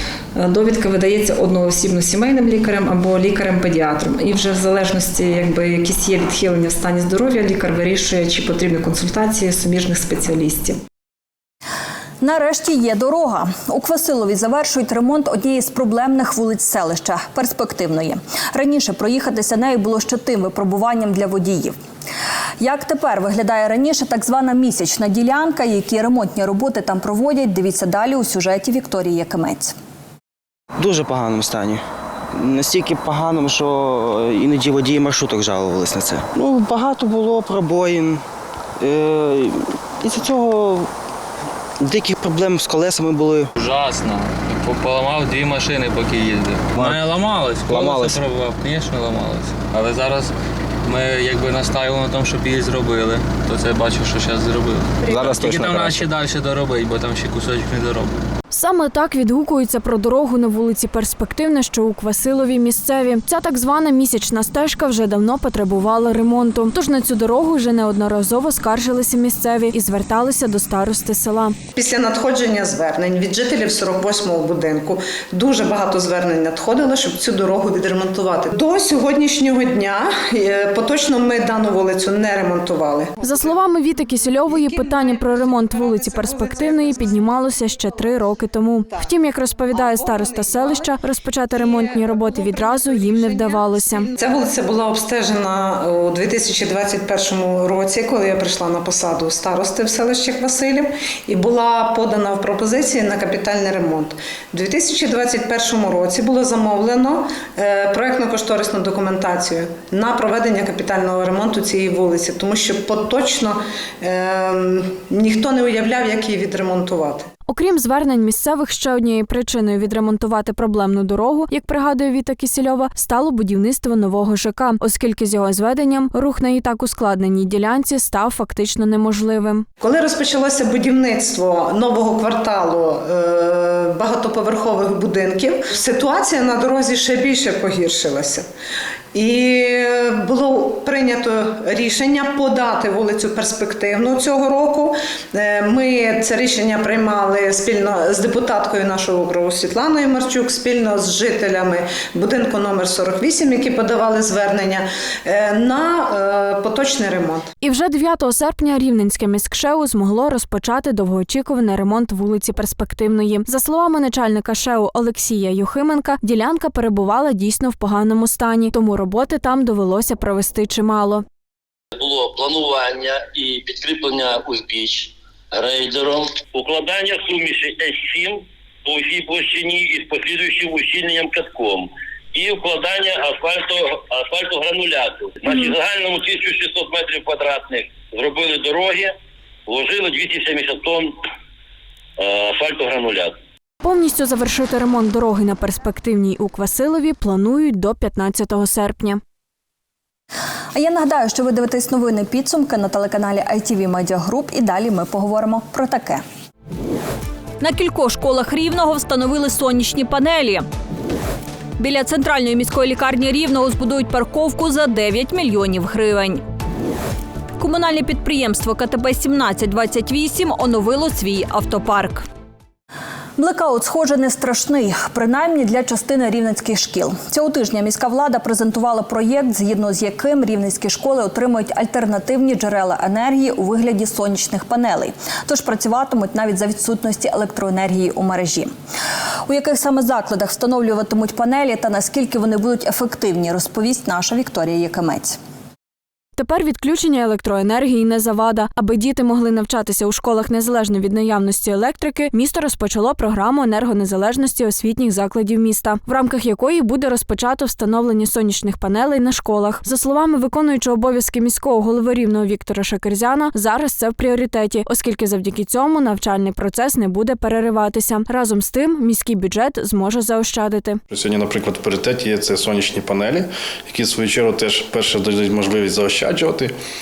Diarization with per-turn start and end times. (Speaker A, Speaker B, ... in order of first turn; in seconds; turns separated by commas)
Speaker A: 0.3-10.8, Speaker B: 12.2-21.7, Speaker B: 22.6-29.7, Speaker C: 30.8-38.2, Speaker C: 38.8-40.9, Speaker C: 41.8-43.5, Speaker D: 43.6-50.3, Speaker C: 47.7-48.2, Speaker D: 50.8-58.2, Speaker C: 55.0-56.0, Speaker E: 58.5-71.5, Speaker F: 71.7-83.6, Speaker E: 83.2-94.1, Speaker F: 84.4-88.1, Speaker F: 89.7-117.3, Speaker E: 117.5-129.6, Speaker F: 129.8-138.5, Speaker F: 139.1-157.5, Speaker E: 157.6-171.2, Speaker G: 171.9-189.1, Speaker G: 189.7-191.2, Speaker G: 192.2-193.3, Speaker E: 193.8-199.2, Speaker B: 200.7-206.2, Speaker B: 207.6-210.6, Speaker B: 211.8-216.4, Speaker B: 217.6-222.3, Speaker B: 223.4-238.7, Speaker B: 239.5-245.4, Speaker E: 246.4-271.0, Speaker H: 271.1-276.7